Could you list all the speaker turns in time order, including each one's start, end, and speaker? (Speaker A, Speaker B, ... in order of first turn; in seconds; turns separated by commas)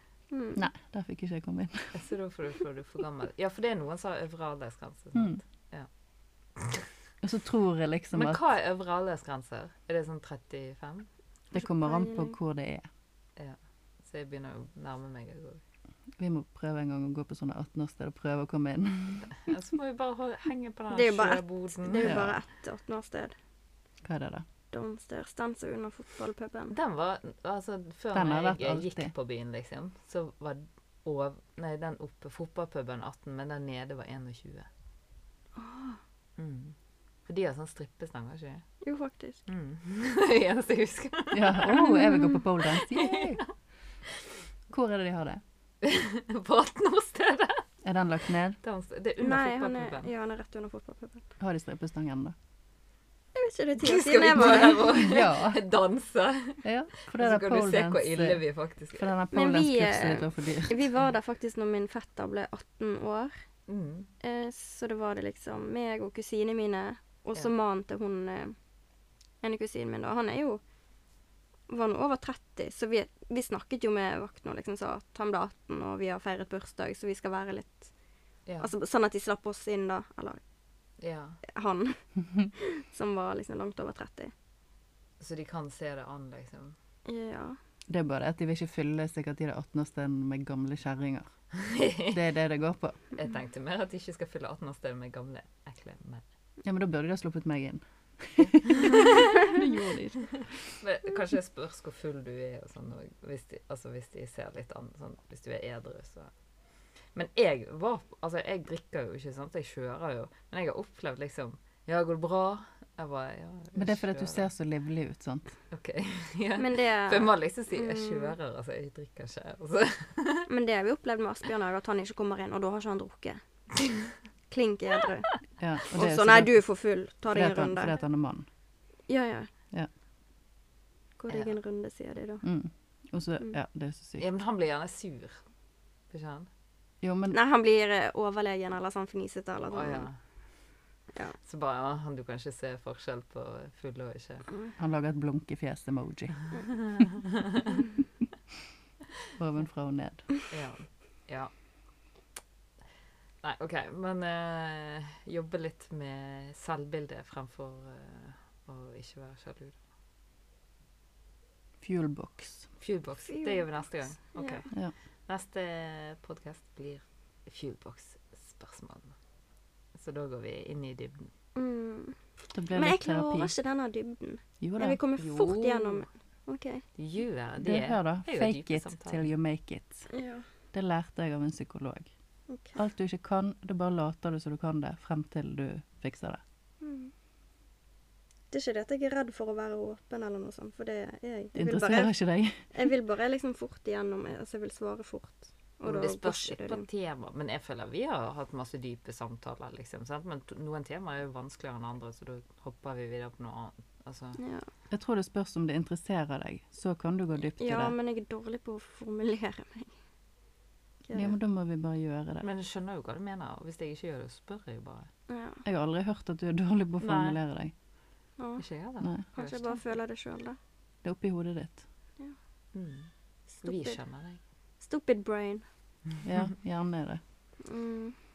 Speaker A: 0.3-0.6, Speaker B: 0.6-1.9, Speaker C: 1.9-5.9, Speaker B: 5.2-5.4, Speaker C: 6.6-6.9, Speaker B: 7.2-8.4, Speaker C: 8.1-11.1, Speaker B: 11.5-12.8, Speaker A: 11.6-12.4, Speaker C: 13.4-15.6, Speaker B: 16.2-19.3, Speaker C: 19.3-22.3, Speaker A: 20.9-23.4, Speaker B: 22.0-22.4, Speaker B: 24.0-24.4, Speaker A: 24.7-26.7, Speaker C: 26.7-34.7, Speaker B: 28.1-29.1, Speaker A: 35.6-36.0, Speaker C: 36.4-36.8, Speaker C: 37.3-38.6, Speaker A: 38.8-39.4, Speaker C: 39.5-43.4, Speaker B: 41.3-43.4, Speaker B: 44.7-45.4, Speaker C: 45.8-47.6, Speaker B: 47.8-48.6, Speaker C: 48.6-50.1, Speaker A: 49.2-51.2, Speaker B: 51.4-52.4, Speaker A: 53.4-55.0, Speaker C: 53.8-59.1, Speaker B: 54.4-55.6, Speaker B: 56.6-58.4, Speaker B: 58.9-60.8, Speaker A: 59.3-63.3, Speaker C: 63.7-64.1, Speaker A: 64.2-68.6, Speaker A: 69.4-70.6, Speaker A: 71.7-77.9, Speaker C: 78.5-78.7, Speaker A: 78.6-80.4, Speaker C: 81.0-81.4, Speaker A: 81.5-82.0, Speaker A: 82.5-84.3, Speaker C: 85.2-86.8, Speaker A: 87.1-87.6, Speaker B: 87.9-91.3, Speaker C: 91.5-92.2, Speaker B: 92.1-93.0, Speaker C: 93.2-96.2, Speaker B: 96.6-100.3, Speaker C: 98.4-99.5, Speaker C: 100.3-106.3, Speaker C: 107.1-114.5, Speaker B: 113.8-115.6, Speaker C: 115.7-120.5, Speaker A: 116.6-118.3, Speaker A: 120.5-123.4, Speaker A: 124.5-125.3, Speaker B: 125.6-126.5, Speaker A: 125.9-128.0, Speaker B: 127.3-128.5, Speaker A: 129.1-129.5, Speaker A: 131.2-132.4, Speaker C: 131.3-131.6, Speaker B: 132.4-134.3, Speaker C: 134.2-135.4, Speaker C: 136.1-136.5, Speaker B: 137.0-137.4, Speaker A: 137.3-140.1, Speaker C: 139.7-140.2, Speaker C: 141.4-144.5, Speaker B: 144.8-146.4, Speaker C: 146.5-147.8, Speaker B: 149.4-150.3, Speaker C: 150.5-151.5, Speaker C: 153.4-159.8, Speaker B: 161.8-162.7, Speaker C: 162.8-164.7, Speaker A: 163.2-163.7, Speaker A: 164.3-164.7, Speaker C: 165.3-169.1, Speaker C: 170.0-171.3, Speaker A: 171.6-172.2, Speaker B: 172.5-173.5, Speaker A: 172.7-176.8, Speaker B: 174.6-175.0, Speaker C: 175.2-176.1, Speaker C: 177.0-179.3, Speaker B: 177.6-180.1, Speaker A: 180.1-180.4, Speaker B: 180.7-182.1, Speaker A: 182.5-182.8, Speaker B: 182.8-186.4, Speaker A: 186.8-187.1, Speaker A: 188.5-192.1, Speaker B: 191.6-192.6, Speaker A: 192.7-196.8, Speaker C: 195.8-204.4, Speaker A: 204.4-204.7, Speaker B: 204.9-207.9, Speaker A: 207.6-209.9, Speaker A: 211.1-211.3, Speaker B: 211.1-212.4, Speaker C: 212.4-215.1, Speaker A: 215.3-215.6, Speaker B: 215.7-217.7, Speaker C: 217.0-217.4, Speaker A: 218.4-218.6, Speaker C: 218.6-219.8, Speaker A: 219.3-220.6, Speaker B: 221.0-221.8, Speaker C: 222.7-223.1, Speaker A: 223.6-224.0, Speaker C: 223.6-224.4, Speaker A: 224.8-225.7, Speaker B: 226.2-227.2, Speaker A: 227.6-228.2